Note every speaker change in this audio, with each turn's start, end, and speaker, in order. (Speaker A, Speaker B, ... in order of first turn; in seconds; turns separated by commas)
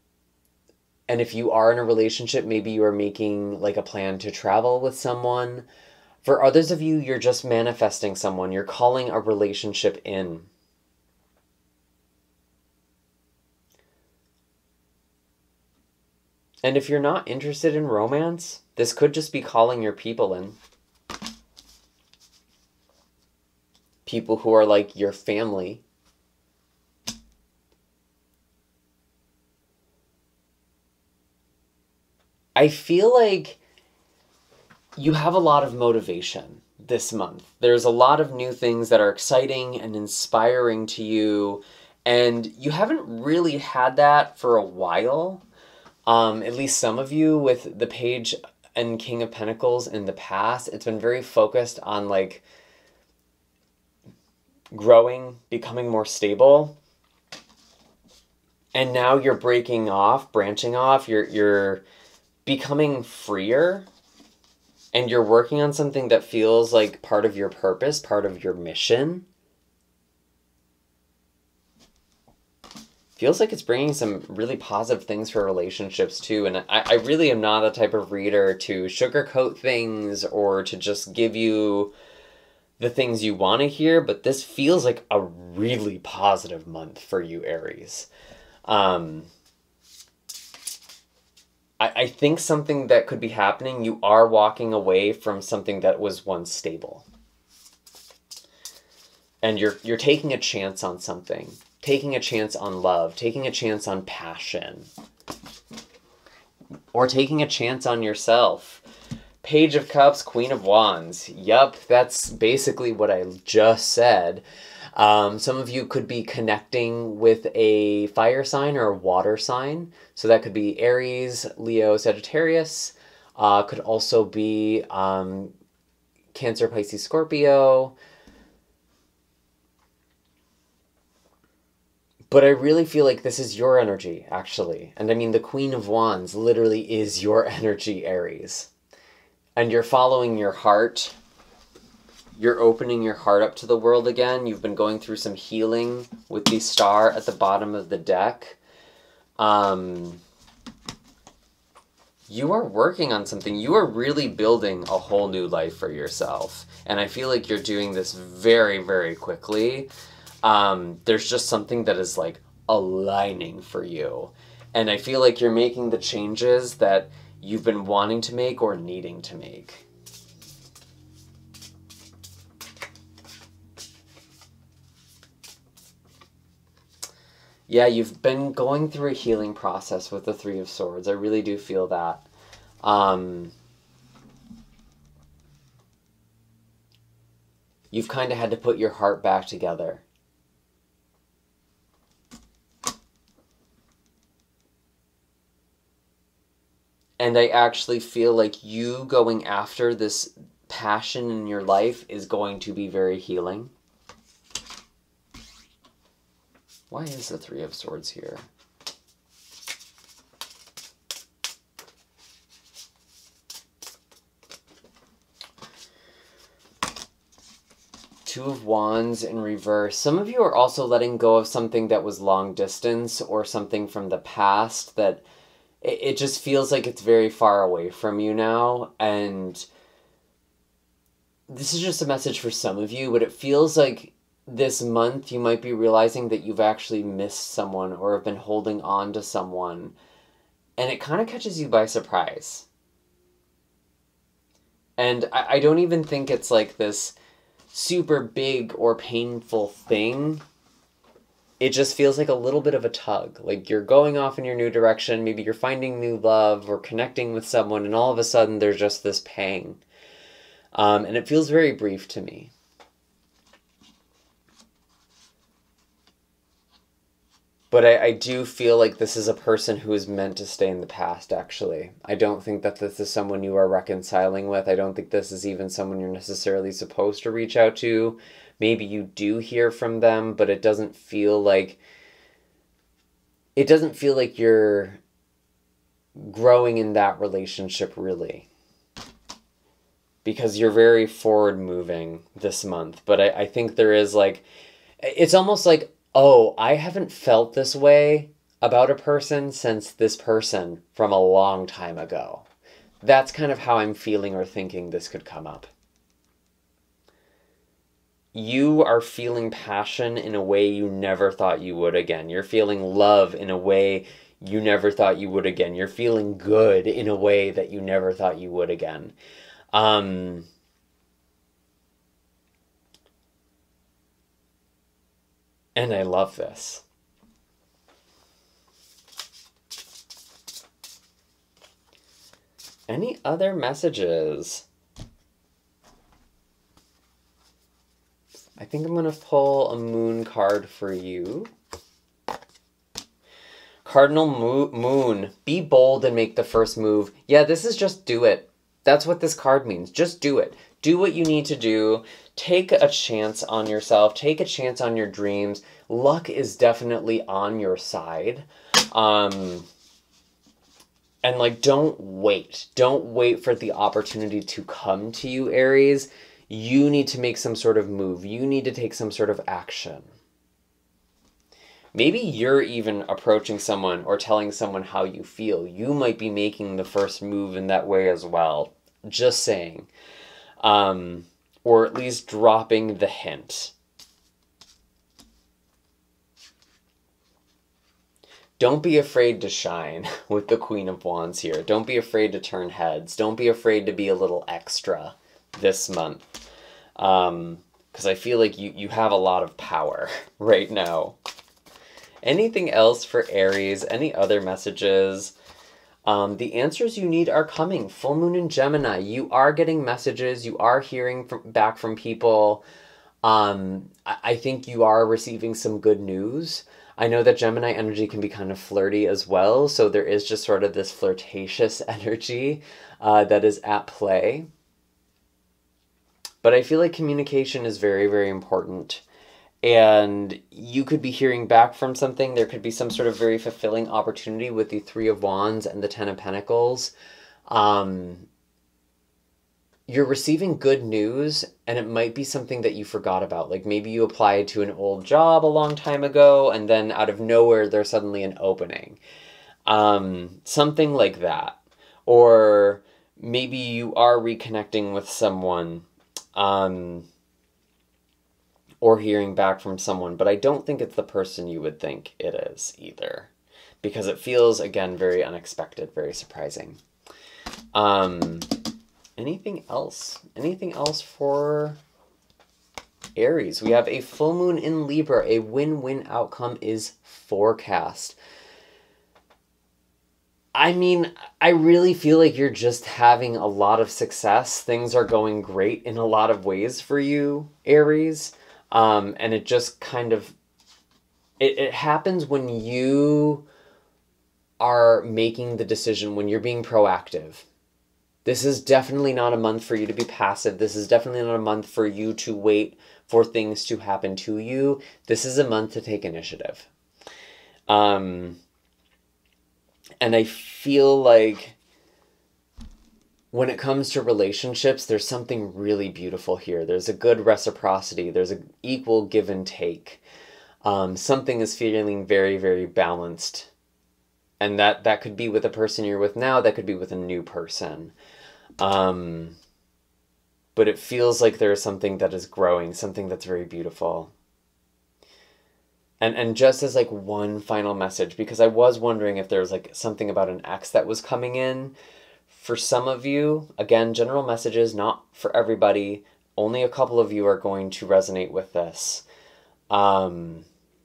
Speaker A: 1.1-5.7, Speaker A: 6.2-10.5, Speaker A: 16.6-20.6, Speaker A: 24.1-25.8, Speaker A: 32.6-33.6, Speaker A: 35.0-45.4, Speaker A: 46.1-52.5, Speaker A: 54.7-56.8, Speaker A: 58.7-61.8, Speaker A: 62.5-63.9, Speaker A: 64.9-69.2, Speaker A: 73.2-81.9, Speaker A: 82.8-88.1, Speaker A: 88.7-89.3, Speaker A: 91.8-97.1, Speaker A: 99.4-104.9, Speaker A: 106.9-108.8, Speaker A: 109.4-125.5, Speaker A: 126.3-128.0, Speaker A: 132.3-138.7, Speaker A: 139.6-141.2, Speaker A: 142.4-148.6, Speaker A: 149.4-150.2, Speaker A: 152.3-159.9, Speaker A: 160.4-169.8, Speaker A: 177.7-182.2, Speaker A: 182.8-183.5, Speaker A: 187.9-190.1, Speaker A: 197.2-203.7, Speaker A: 206.9-208.4, Speaker A: 218.2-225.2, Speaker A: 225.8-229.7, Speaker A: 231.5-239.9, Speaker A: 240.8-242.7, Speaker A: 245.0-247.2, Speaker A: 247.7-250.4, Speaker A: 251.6-259.8, Speaker A: 260.8-262.5, Speaker A: 267.7-281.8, Speaker A: 283.6-285.0, Speaker A: 286.2-288.5, Speaker A: 290.2-294.4, Speaker A: 295.0-302.4, Speaker A: 303.0-305.7, Speaker A: 308.3-319.2, Speaker A: 319.7-320.5, Speaker A: 325.8-326.8, Speaker A: 332.9-334.6, Speaker A: 338.6-341.5, Speaker A: 343.9-359.7, Speaker A: 361.2-370.1, Speaker A: 371.9-379.9, Speaker A: 380.6-383.7, Speaker A: 388.6-396.3, Speaker A: 397.0-401.2, Speaker A: 402.2-405.3, Speaker A: 406.1-412.6, Speaker A: 413.2-424.5, Speaker A: 426.4-429.0, Speaker A: 429.6-436.9, Speaker A: 437.5-438.3, Speaker A: 439.9-449.0, Speaker A: 449.7-457.1, Speaker A: 458.8-463.3, Speaker A: 463.8-466.8, Speaker A: 467.7-468.5, Speaker A: 469.2-471.8, Speaker A: 473.2-478.2, Speaker A: 480.6-490.4, Speaker A: 491.4-493.4, Speaker A: 494.6-497.4, Speaker A: 498.2-506.7, Speaker A: 507.7-508.4, Speaker A: 510.0-511.6, Speaker A: 513.3-520.0, Speaker A: 520.6-523.5, Speaker A: 524.4-528.0, Speaker A: 528.6-529.4, Speaker A: 530.5-534.1, Speaker A: 536.0-541.7, Speaker A: 542.3-549.0, Speaker A: 549.7-550.5